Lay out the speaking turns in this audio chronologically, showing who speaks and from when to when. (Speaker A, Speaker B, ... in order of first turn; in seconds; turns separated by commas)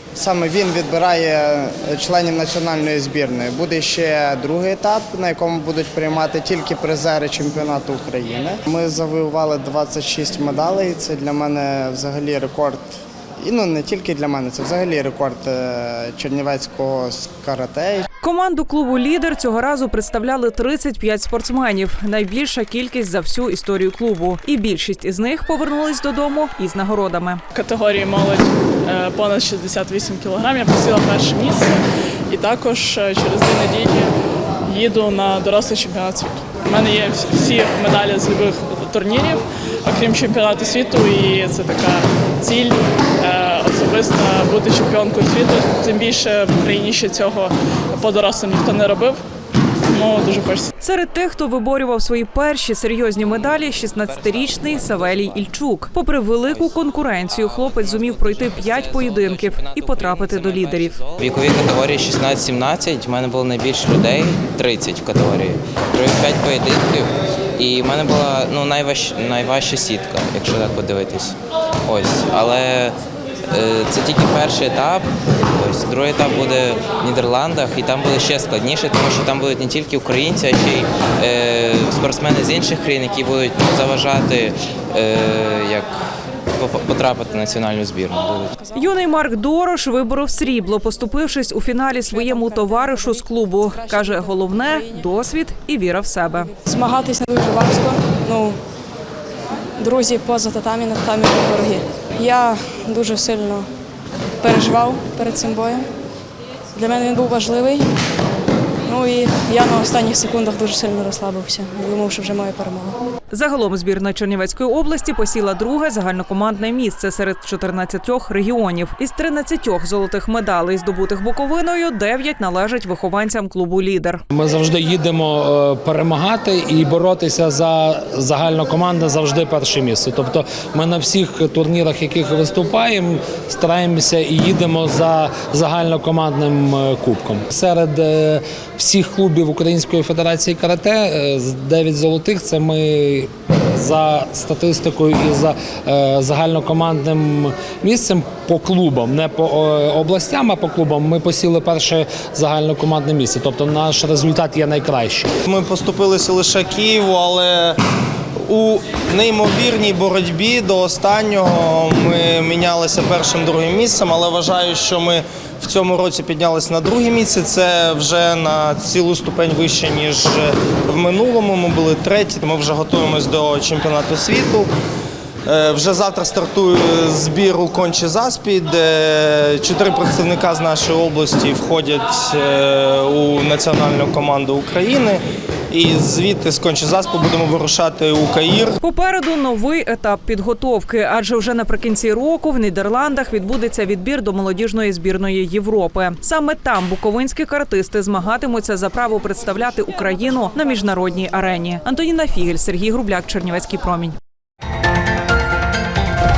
Speaker A: 0.1-18.1, Speaker B: 18.2-27.4, Speaker C: 27.5-34.1, Speaker C: 34.6-49.2, Speaker C: 49.9-50.7, Speaker B: 50.8-61.0, Speaker D: 53.8-55.4, Speaker D: 57.3-71.3, Speaker D: 71.9-73.0, Speaker D: 73.5-85.9, Speaker D: 86.6-88.5, Speaker B: 88.7-96.5, Speaker E: 92.1-94.8, Speaker E: 96.6-98.6, Speaker E: 99.8-103.7, Speaker E: 104.4-105.9, Speaker E: 106.7-107.9, Speaker E: 108.8-113.0, Speaker B: 113.3-124.2, Speaker F: 124.3-155.3, Speaker G: 155.5-157.8, Speaker G: 158.5-174.7, Speaker G: 175.4-185.2, Speaker G: 185.7-188.8, Speaker B: 188.8-204.2